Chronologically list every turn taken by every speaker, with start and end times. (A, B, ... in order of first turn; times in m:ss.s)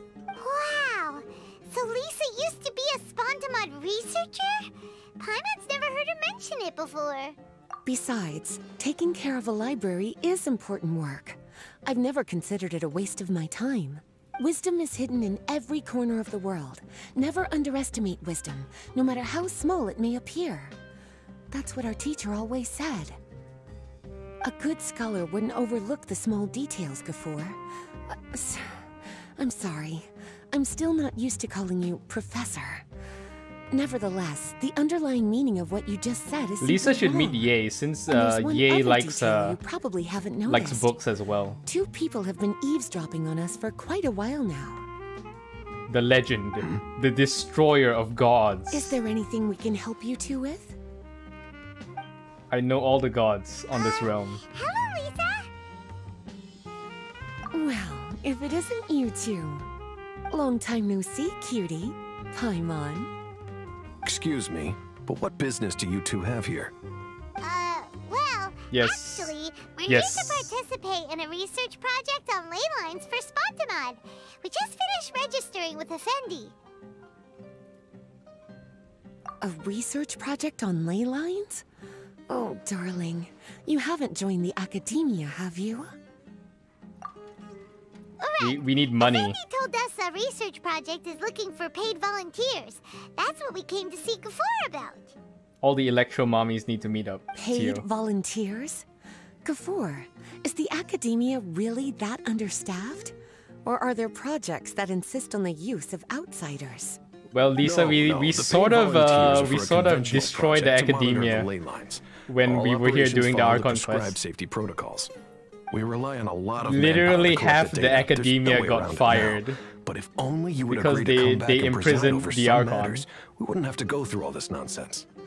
0:00.3-0:07.4 A
0:07.8-0:20.8 B
0:21.5-0:23.2 B
0:24.4-0:32.8 B
0:33.7-0:37.5 B
0:36.6-0:39.6 C
0:38.1-0:40.9 B
0:40.4-0:41.6 C
0:41.6-0:44.8 B
0:45.9-0:49.0 C
0:48.7-0:50.8 B
0:52.5-0:54.4 C
0:53.7-0:55.5 A
0:57.5-0:59.7 B
1:00.3-1:03.1 B
1:04.0-1:06.7 D
1:07.4-1:16.5 A
1:08.7-1:09.3 C
1:09.9-1:10.5 C
1:19.4-1:21.6 B
1:22.3-1:25.9 B
1:28.2-1:35.1 A
1:28.4-1:29.4 C
1:35.6-1:37.8 C
1:37.4-1:38.8 B
1:39.4-1:47.0 B
1:47.3-1:51.5 C
1:47.6-1:55.1 D
1:52.3-1:54.2 C
1:55.7-2:05.1 D
1:56.6-1:59.6 C
2:00.6-2:03.0 C